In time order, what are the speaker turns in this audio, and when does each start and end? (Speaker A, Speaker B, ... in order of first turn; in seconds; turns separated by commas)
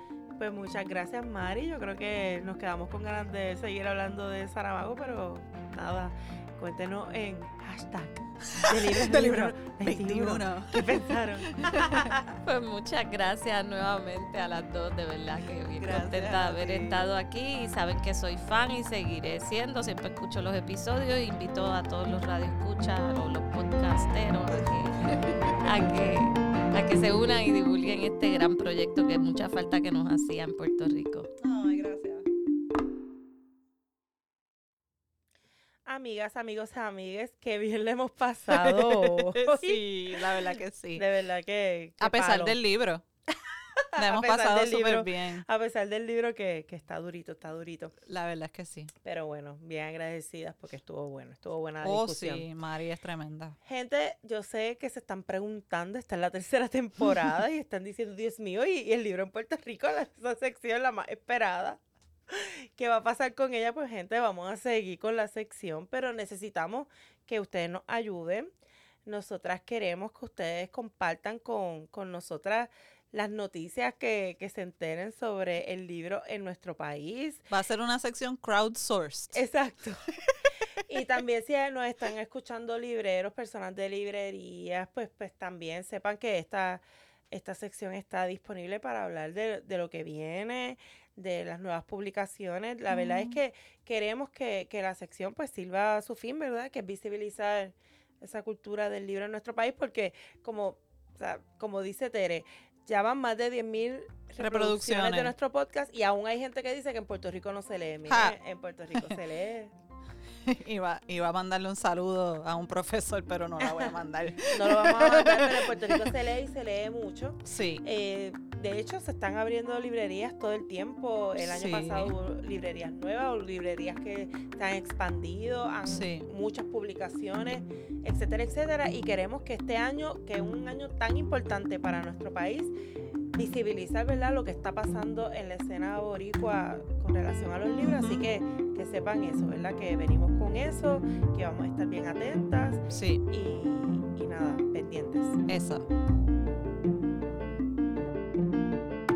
Speaker A: 0.4-12.3, Speaker B: 8.6-12.1, Speaker C: 12.4-25.0, Speaker B: 15.7-17.1, Speaker B: 24.5-26.2, Speaker C: 25.6-31.3, Speaker B: 31.4-32.2, Speaker A: 35.9-42.6, Speaker B: 38.5-41.0, Speaker B: 42.0-43.0, Speaker A: 43.4-47.9, Speaker B: 44.0-45.4, Speaker B: 48.1-48.9, Speaker A: 49.0-52.5, Speaker B: 51.8-53.6, Speaker A: 53.6-68.5, Speaker A: 69.1-77.5, Speaker B: 77.5-79.4, Speaker A: 79.3-80.2, Speaker A: 80.8-109.7, Speaker B: 92.9-93.4, Speaker B: 104.4-105.3, Speaker B: 108.1-108.3, Speaker B: 108.9-109.2, Speaker B: 110.4-116.1, Speaker A: 113.6-113.9, Speaker A: 114.5-132.7, Speaker B: 117.4-117.8, Speaker B: 121.4-122.1, Speaker B: 125.8-126.3, Speaker A: 133.3-145.4, Speaker B: 137.8-138.3, Speaker B: 142.9-143.2, Speaker B: 145.5-145.9